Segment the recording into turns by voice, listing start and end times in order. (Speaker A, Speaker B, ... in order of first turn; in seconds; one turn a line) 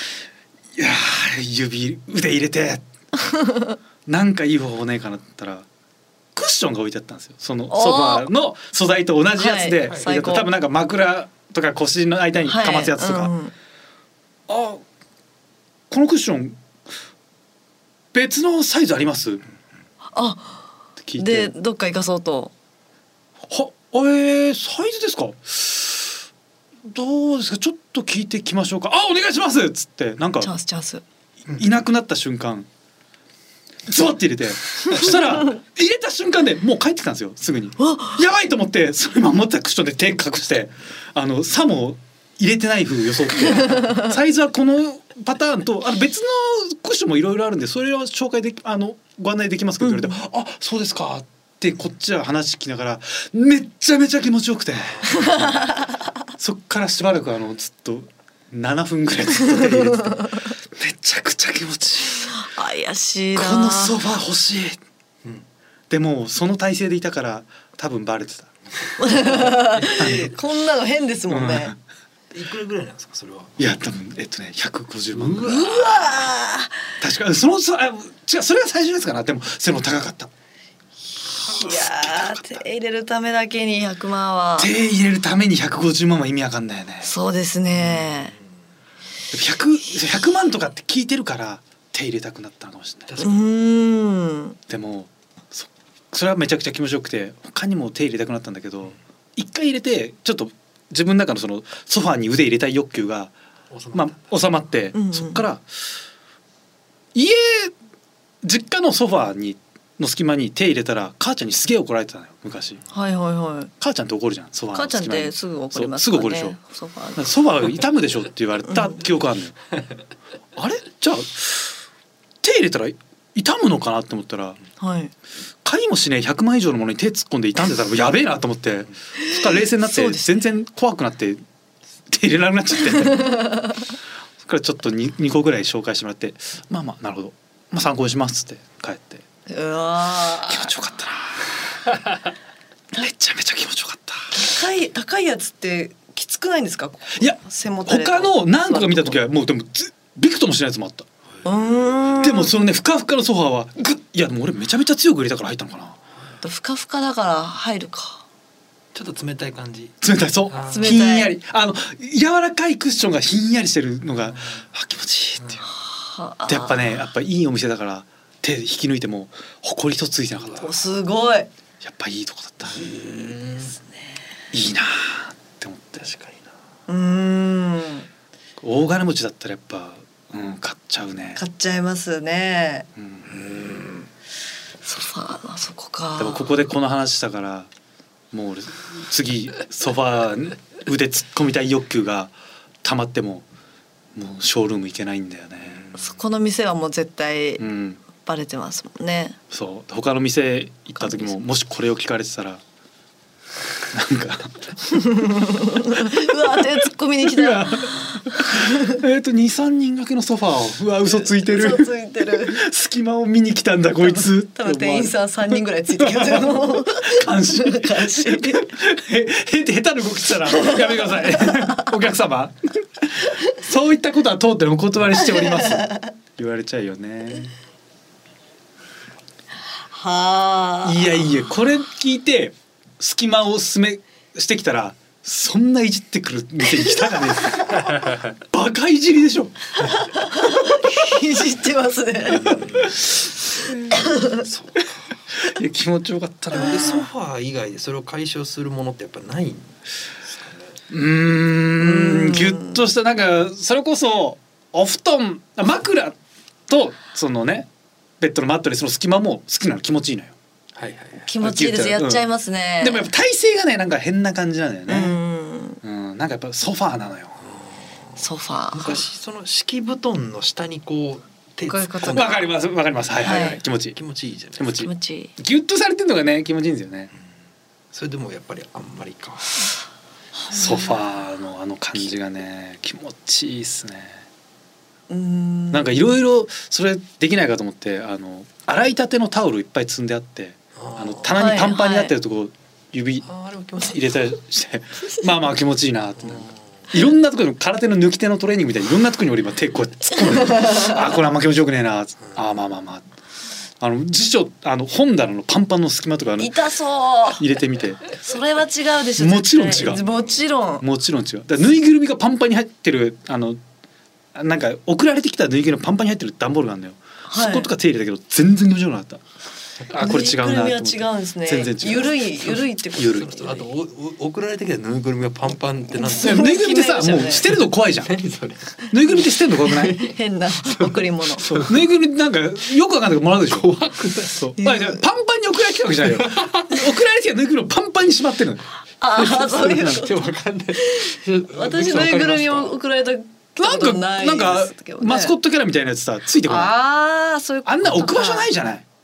Speaker A: 0.7-2.8
Speaker B: 3.2-3.8
Speaker A: 4.0-5.7
Speaker A: 6.3-13.3
Speaker B: 7.7-8.2
Speaker B: 9.4-10.5
Speaker B: 12.4-13.5
Speaker A: 14.5-14.8
Speaker A: 15.9-16.6
Speaker A: 18.1-19.4
Speaker B: 20.1-20.6
Speaker A: 21.0-21.5
Speaker B: 21.2-22.5
Speaker A: 23.4-26.2
Speaker A: 26.8-30.5
Speaker B: 30.4-31.0
Speaker A: 31.5-32.7
Speaker A: 33.9-55.7
Speaker B: 37.8-38.2
Speaker B: 43.6-44.0
Speaker B: 49.8-50.2
Speaker C: 55.0-55.3
Speaker B: 55.2-55.8
Speaker A: 56.4-62.4
Speaker B: 62.3-63.9
Speaker A: 63.3-64.8
Speaker A: 65.9-68.5
Speaker B: 69.0-71.7
Speaker A: 69.0-70.3
Speaker A: 71.3-71.8
Speaker C: 72.3-73.8
Speaker A: 73.6-76.1
Speaker C: 75.1-75.9
Speaker B: 75.5-76.9
Speaker A: 77.0-80.3
Speaker A: 81.4-82.6
Speaker B: 81.4-84.7
Speaker A: 84.6-87.1
Speaker B: 87.0-88.3
Speaker C: 87.7-88.4
Speaker A: 89.3-93.2
Speaker C: 93.1-93.4
Speaker B: 93.2-94.6
Speaker A: 94.7-103.3
Speaker C: 103.7-104.3
Speaker A: 103.9-105.6
Speaker B: 104.9-105.4
Speaker A: 107.1-107.7
Speaker A: 108.4-112.8
Speaker B: 112.9-113.7
Speaker A: 113.8-116.6
Speaker B: 114.7-117.3
Speaker A: 117.2-119.6
Speaker B: 118.7-119.0
Speaker A: 120.5-121.8
Speaker A: 122.4-124.6
Speaker B: 124.8-125.1
Speaker A: 125.6-131.4
Speaker B: 129.2-130.4
Speaker A: 132.1-133.6
Speaker B: 133.1-133.6
Speaker A: 134.4-139.2
Speaker B: 139.5-140.7
Speaker A: 140.4-141.9
Speaker A: 142.9-144.3
Speaker B: 144.3-149.2
Speaker A: 147.2-151.1
Speaker B: 151.4-152.5
Speaker A: 152.2-156.0
Speaker B: 156.4-158.2
Speaker C: 158.9-161.0
Speaker A: 160.0-165.7
Speaker B: 160.7-161.3
Speaker B: 165.8-166.8
Speaker A: 166.5-170.7
Speaker C: 170.4-170.7
Speaker B: 170.6-171.5
Speaker A: 171.8-172.9
Speaker C: 172.7-173.7
Speaker A: 174.5-176.0
Speaker C: 176.0-176.5
Speaker B: 176.9-178.1
Speaker A: 178.6-181.4
Speaker B: 181.3-182.9
Speaker A: 182.9-183.4
Speaker C: 183.3-184.1
Speaker B: 184.8-186.5
Speaker A: 186.2-187.7
Speaker A: 188.3-193.4
Speaker A: 194.1-195.8
Speaker C: 195.7-196.2
Speaker B: 195.9-199.4
Speaker A: 197.6-198.0
Speaker A: 199.5-202.6
Speaker B: 200.9-201.3
Speaker A: 203.9-205.1
Speaker B: 204.9-209.0
Speaker A: 205.9-206.6
Speaker A: 207.2-227.5
Speaker B: 211.3-212.6
Speaker B: 214.0-218.7
Speaker B: 220.6-220.8
Speaker B: 225.6-226.1
Speaker B: 229.9-231.3
Speaker A: 230.8-239.7
Speaker B: 239.9-242.6
Speaker C: 242.3-243.0
Speaker B: 243.9-244.4
Speaker C: 244.2-244.9
Speaker A: 245.3-247.1
Speaker C: 246.5-250.8
Speaker A: 250.9-256.2
Speaker B: 251.8-252.7
Speaker A: 256.7-257.7
Speaker A: 258.2-260.4
Speaker C: 260.8-261.3
Speaker B: 261.3-263.1
Speaker A: 261.4-262.2
Speaker A: 262.8-265.2
Speaker B: 264.9-265.8
Speaker A: 265.8-267.4
Speaker C: 267.4-267.7
Speaker B: 268.2-269.0
Speaker C: 268.7-272.4
Speaker B: 271.7-272.4
Speaker A: 272.1-274.0
Speaker B: 273.2-273.6
Speaker C: 273.3-274.8
Speaker A: 274.6-277.1
Speaker B: 274.8-275.3
Speaker C: 277.9-279.7
Speaker B: 280.4-281.0
Speaker A: 280.5-284.2
Speaker B: 285.1-286.0
Speaker A: 285.7-293.3
Speaker C: 290.8-291.4
Speaker B: 291.3-292.1
Speaker C: 293.2-294.3
Speaker A: 293.8-303.0
Speaker C: 296.3-296.6
Speaker B: 300.4-300.9
Speaker A: 303.8-306.6
Speaker B: 306.4-307.4
Speaker A: 307.3-308.1
Speaker B: 308.2-310.8
Speaker A: 309.2-310.0
Speaker A: 310.8-313.6
Speaker A: 314.3-319.2
Speaker B: 317.3-317.7
Speaker A: 319.9-323.3
Speaker B: 319.9-323.7
Speaker C: 323.0-326.4
Speaker B: 326.0-327.5
Speaker A: 326.1-328.1
Speaker C: 328.0-328.9
Speaker A: 328.9-330.0
Speaker C: 329.6-331.8
Speaker B: 329.8-331.6
Speaker A: 331.6-333.7
Speaker C: 333.5-334.5
Speaker A: 334.3-338.6
Speaker B: 334.6-335.0
Speaker C: 336.1-336.7
Speaker B: 339.0-345.3
Speaker A: 339.2-340.0
Speaker C: 339.2-342.8
Speaker A: 343.6-346.7
Speaker B: 346.4-348.5
Speaker A: 347.6-348.8